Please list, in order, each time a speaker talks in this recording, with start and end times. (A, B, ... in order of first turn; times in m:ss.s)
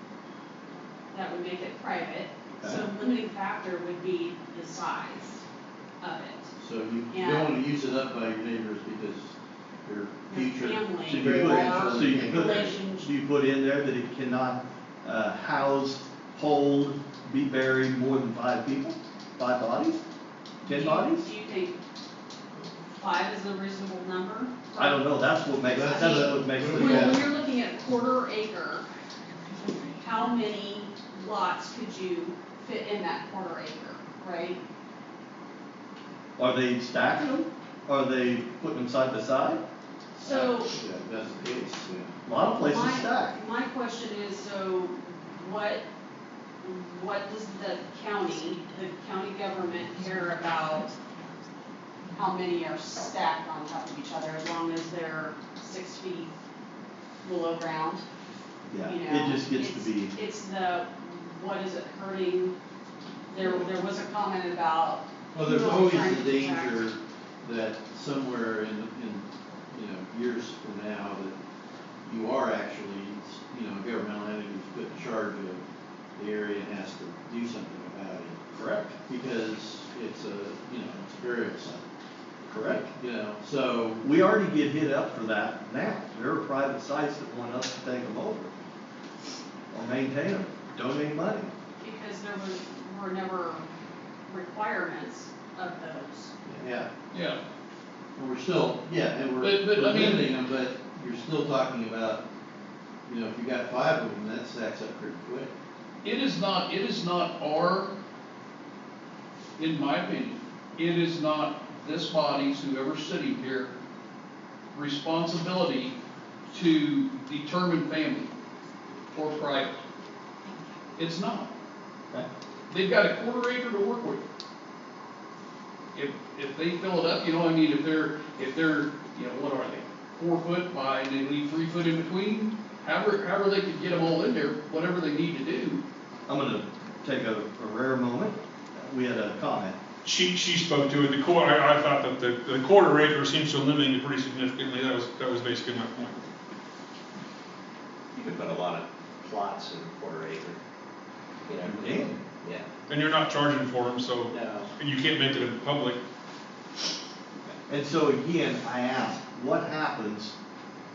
0:01.1-0:05.4 A
0:06.0-0:06.5 A
0:06.6-0:09.3 B
0:07.1-0:07.6 A
0:09.8-0:12.8 B
0:10.3-0:13.1 A
0:11.1-0:20.0 C
0:20.6-0:21.8 A
0:20.7-0:21.3 C
0:23.0-0:25.3 A
0:24.8-0:27.2 C
0:25.6-0:27.3 B
0:25.9-0:28.9 A
0:29.9-0:34.6 A
0:36.4-0:39.6 C
0:40.2-0:40.7 A
0:40.2-0:42.1 B
0:42.2-0:43.4 C
0:42.6-0:45.9 A
0:46.6-0:51.0 A
0:52.2-0:56.3 A
0:57.2-0:58.0 A
0:58.7-1:00.1 C
0:58.8-1:02.6 A
1:03.3-1:06.8 A
1:05.3-1:11.4 B
1:12.0-1:15.6 B
1:16.2-1:18.4 B
1:18.5-1:18.9 C
1:19.0-1:21.8 B
1:22.5-1:22.8 C
1:22.6-1:24.0 B
1:24.0-1:28.5 C
1:29.7-1:31.5 C
1:31.8-1:33.7 A
1:34.3-1:36.3 A
1:36.5-1:36.9 B
1:37.1-1:37.4 D
1:38.2-1:42.2 B
1:39.4-1:40.3 D
1:43.1-1:45.5 B
1:46.0-1:47.9 D
1:49.6-1:53.7 D
1:54.7-1:55.9 D
1:56.5-1:58.3 D
1:59.1-1:59.8 D
2:01.0-2:01.5 D
2:02.7-2:04.2 D
2:05.9-2:15.8 D
2:16.3-2:19.8 C
2:20.0-2:26.2 E
2:28.1-2:30.6 F
2:31.5-2:32.7 F
2:31.6-2:32.2 C
2:32.9-2:36.0 E
2:34.3-2:34.7 F
2:37.7-2:40.3 C